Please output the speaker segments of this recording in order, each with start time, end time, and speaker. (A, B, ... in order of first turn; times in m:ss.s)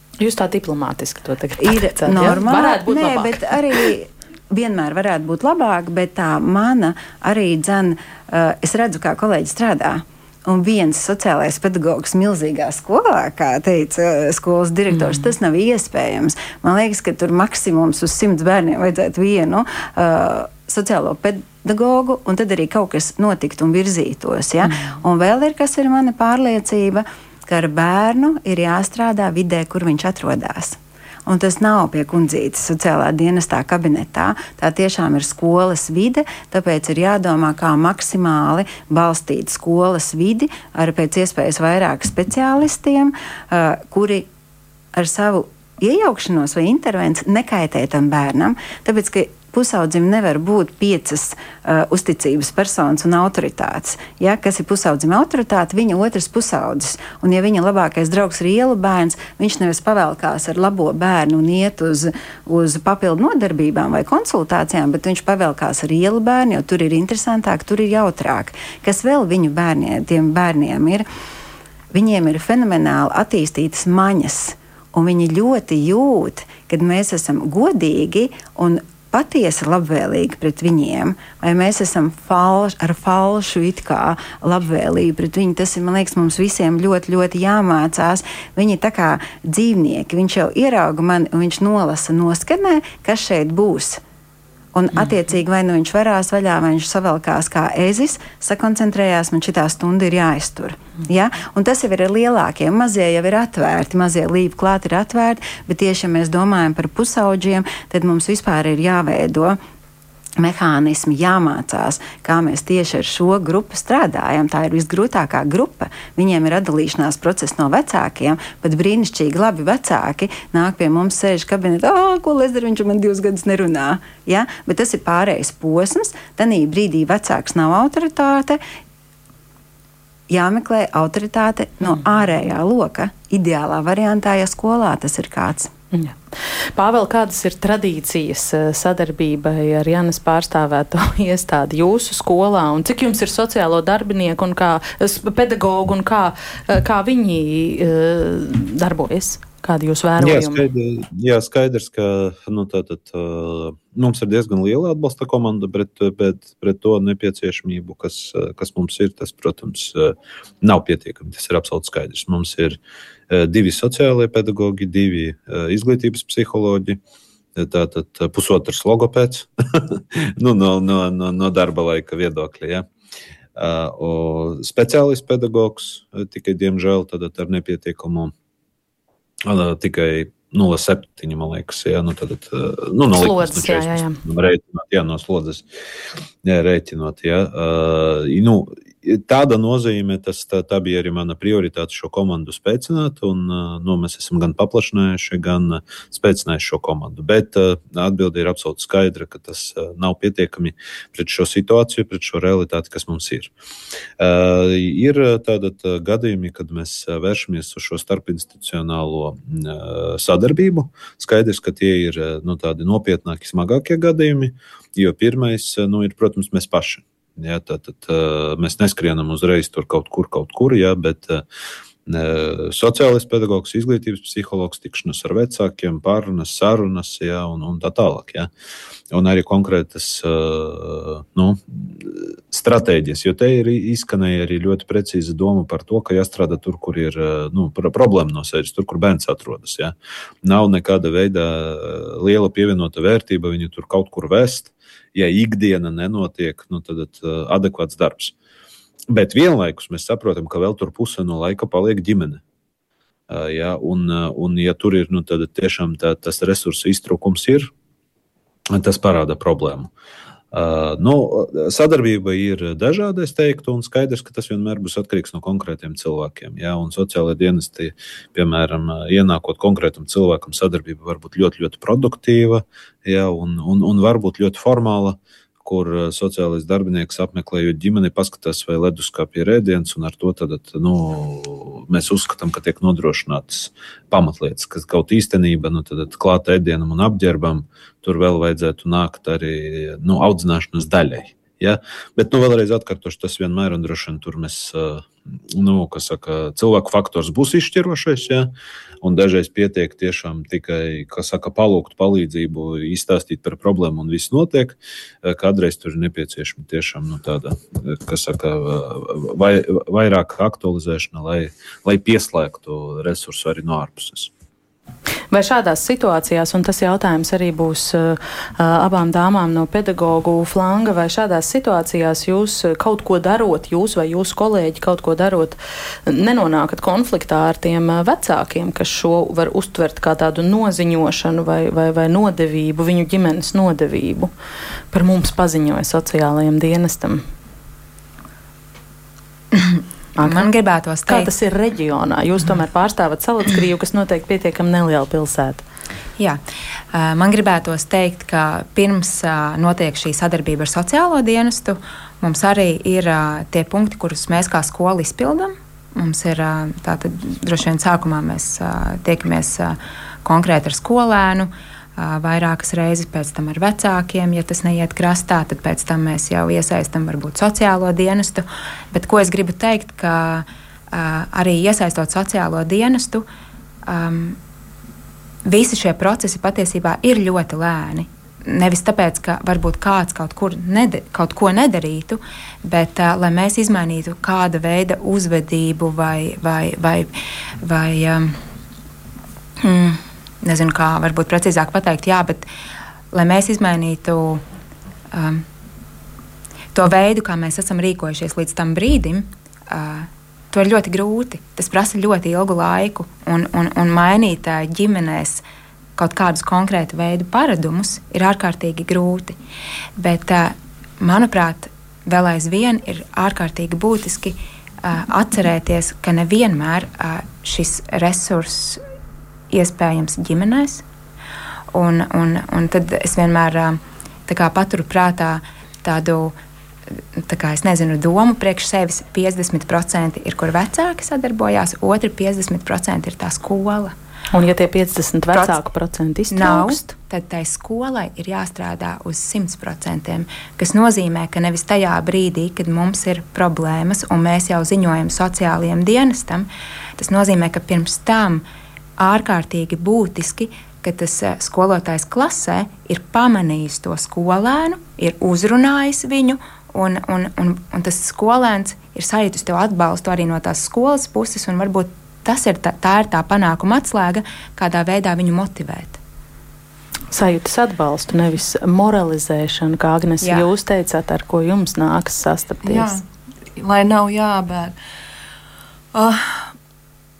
0:00.2-0:03.6 A
0:01.6-0:44.3 B
0:14.9-0:15.3 A
0:44.9-1:11.0 B
1:11.9-1:34.0 B
1:34.7-1:49.6 B
1:50.4-2:08.6 B
2:10.3-2:15.7 B
2:15.9-2:16.2 A
2:16.7-2:30.6 A
2:30.2-2:42.8 C
2:43.3-2:47.0 C
2:47.6-2:52.9 C
2:53.6-2:58.3 C
2:59.4-3:05.6 C
3:03.1-3:04.2 A
3:06.4-3:23.5 C
3:24.2-3:41.4 C
3:42.0-3:48.5 C
3:49.1-4:08.3 C
4:09.1-4:12.4 C
4:13.3-4:17.7 C
4:18.7-4:19.9 C
4:20.5-4:58.5 C
4:59.0-5:14.3 C
5:15.3-5:34.3 A
5:34.9-5:37.2 A
5:39.5-5:41.3 D
5:40.2-5:40.5 A
5:41.1-5:45.6 A
5:46.9-6:13.2 D
6:13.9-6:14.4 D
6:15.4-6:27.1 D
6:27.6-6:28.4 D
6:29.6-6:32.5 D
6:33.1-6:34.4 D
6:35.1-6:35.4 D
6:36.7-6:45.4 D
6:46.0-6:49.4 D
6:50.0-6:58.8 D
6:59.5-7:00.8 D
7:01.7-7:06.3 D
7:07.2-7:13.9 D
7:14.3-7:16.9 A
7:16.3-7:28.4 D
7:29.0-7:46.0 D
7:47.1-7:53.0 A
7:50.2-7:50.5 D
7:52.6-7:53.0 E
7:53.6-7:54.7 E
7:55.9-7:56.5 E